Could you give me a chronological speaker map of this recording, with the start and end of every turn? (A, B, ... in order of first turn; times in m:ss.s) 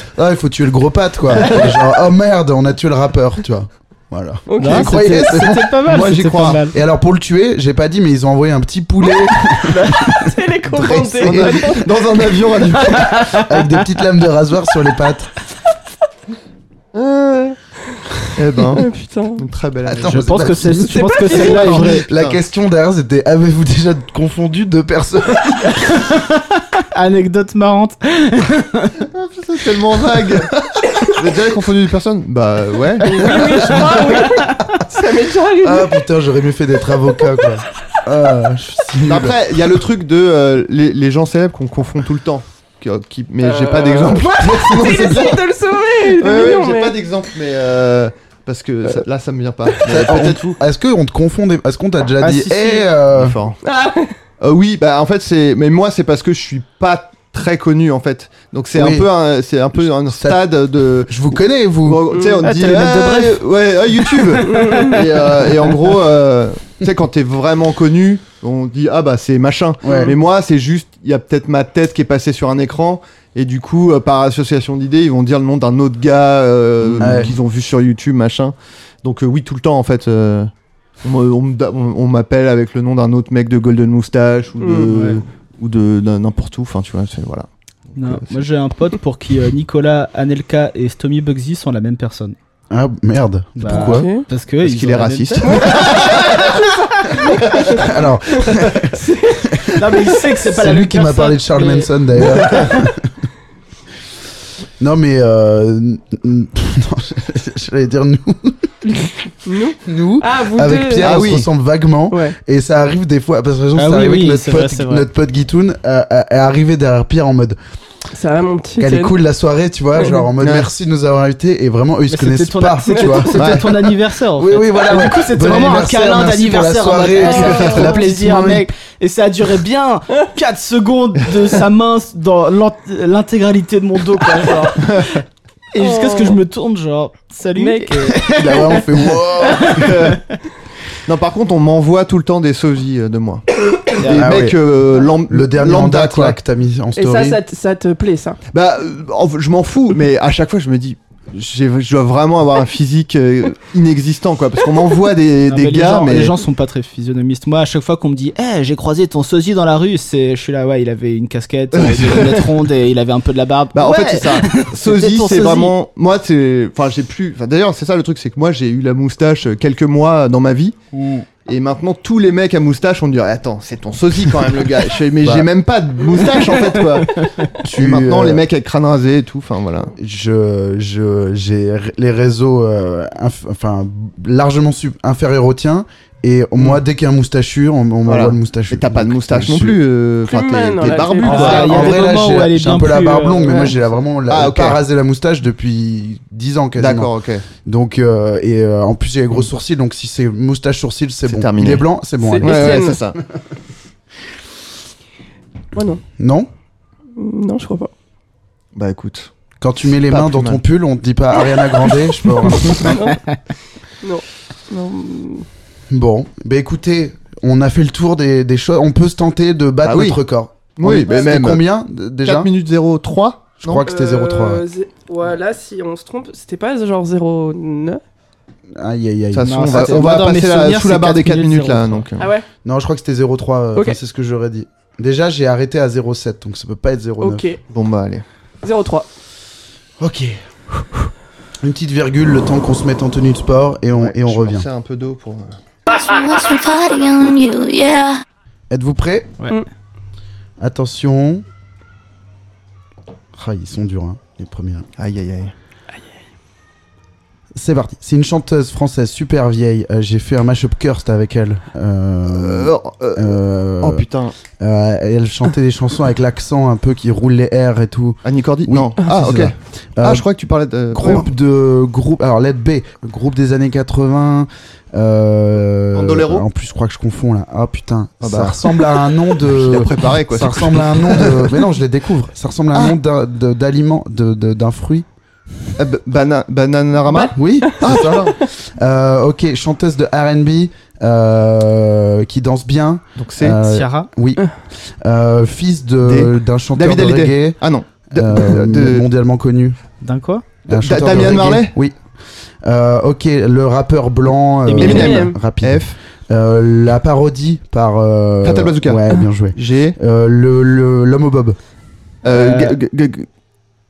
0:00.1-0:11.8 A
0:04.5-0:05.0 B
0:04.6-0:06.8 C
0:05.8-0:06.6 D
0:09.7-0:10.3 C
0:10.2-0:11.8 B
0:11.2-0:13.4 D
0:12.8-0:13.8 C
0:13.3-0:15.3 A
0:16.9-0:17.6 D
0:18.4-0:20.2 D
0:18.7-0:19.4 B
0:19.8-0:26.0 A
0:20.1-0:22.1 C
0:20.9-0:21.4 B
0:21.3-0:22.4 D
0:26.0-0:29.0 C
0:29.1-0:30.6 D
0:31.2-0:34.0 D
0:33.0-0:36.0 B
0:35.6-0:39.8 A
0:39.1-0:45.5 D
0:43.4-0:47.0 B
0:46.1-0:50.6 D
0:49.9-0:53.4 A
0:52.2-0:52.9 C
0:53.1-0:53.6 D
0:53.6-0:54.1 B
0:54.4-1:20.5 D
0:58.8-0:59.1 A
0:59.8-1:02.2 A
1:02.1-1:02.4 B
1:02.4-1:05.8 C
1:04.4-1:05.0 B
1:09.8-1:10.2 A
1:09.9-1:10.2 B
1:17.0-1:17.3 A
1:21.0-1:28.4 D
1:24.6-1:24.9 B
1:25.0-1:25.2 C
1:28.0-1:32.4 C
1:32.7-1:34.1 A
1:33.6-1:35.9 C
1:33.7-1:34.2 B
1:34.6-1:36.6 D
1:35.4-1:37.8 B
1:37.6-1:43.1 A
1:38.4-1:39.7 B
1:39.7-1:42.9 C
1:44.8-1:48.7 A
1:49.4-1:51.2 B
1:49.8-1:57.6 A
1:51.0-1:51.5 D
1:52.1-1:52.4 B
1:53.8-1:55.1 C
1:58.1-1:59.2 B
1:58.8-2:03.7 A
2:00.4-2:00.7 D
2:02.1-2:20.2 C
2:02.9-2:03.3 B
2:03.4-2:03.8 D
2:04.4-2:08.7 A
2:07.2-2:08.0 B
2:14.8-2:15.1 D
2:15.8-2:16.4 B
2:17.6-2:18.2 B
2:18.3-2:20.0 A
2:19.7-2:20.2 D
2:21.1-2:23.5 D
2:24.0-2:24.4 C
2:24.0-2:26.4 D
2:24.1-2:27.4 A
2:27.0-2:28.4 B
2:28.5-2:36.4 D
2:35.5-2:45.7 C
2:41.7-2:42.5 D
2:43.7-2:50.8 D
2:50.9-2:51.2 C
2:51.4-2:59.9 D
2:55.2-2:55.5 A
2:57.6-2:58.4 A
3:00.0-3:09.8 A
3:08.1-3:11.9 D
3:10.3-3:12.0 B
3:11.2-3:17.1 A
3:11.2-3:13.8 C
3:14.3-3:14.8 D
3:16.8-3:17.4 D
3:17.6-3:23.0 A
3:21.3-3:21.9 D
3:22.2-3:23.0 B
3:22.4-3:23.2 D
3:25.7-3:26.0 B
3:26.2-3:26.5 A
3:27.2-3:27.9 B
3:28.8-3:29.3 D
3:29.6-3:33.2 A
3:29.9-3:30.6 D
3:32.9-3:33.2 B
3:34.0-3:35.4 B
3:35.9-3:42.5 A
3:39.8-3:40.2 D
3:40.8-3:41.6 D
3:42.2-3:43.9 D
3:43.6-3:44.6 A
3:43.9-3:48.0 B
3:48.8-3:50.1 A
3:49.3-3:52.3 D
3:49.4-3:52.0 C
3:52.2-3:52.5 B
3:52.6-3:57.5 A
3:57.2-3:57.6 B
3:57.7-3:58.2 D
3:58.6-3:59.1 B
4:00.0-4:01.1 A
4:01.6-4:04.7 A
4:04.0-4:05.6 D
4:05.9-4:08.2 E
4:08.7-4:09.3 A
4:10.6-4:11.4 A
4:13.3-4:14.9 A
4:15.0-4:15.5 D
4:17.6-4:24.1 A
4:22.3-4:24.4 D
4:24.6-4:30.3 A
4:28.2-4:31.3 D
4:30.9-4:45.1 A
4:35.9-4:36.4 D
4:38.2-4:38.9 D
4:39.4-4:41.6 D
4:45.8-4:48.4 D
4:47.1-4:47.8 B
4:47.3-4:59.8 A
4:53.2-4:53.6 D
4:53.6-4:54.1 C
4:56.0-4:59.0 D
5:00.0-5:00.4 C
5:00.7-5:01.8 D
5:00.7-5:02.0 A
5:02.6-5:11.6 A
5:04.7-5:05.2 C
5:04.8-5:06.0 D
5:04.8-5:05.4 B
5:08.4-5:10.0 D
5:12.2-5:13.3 D
5:12.3-5:12.8 C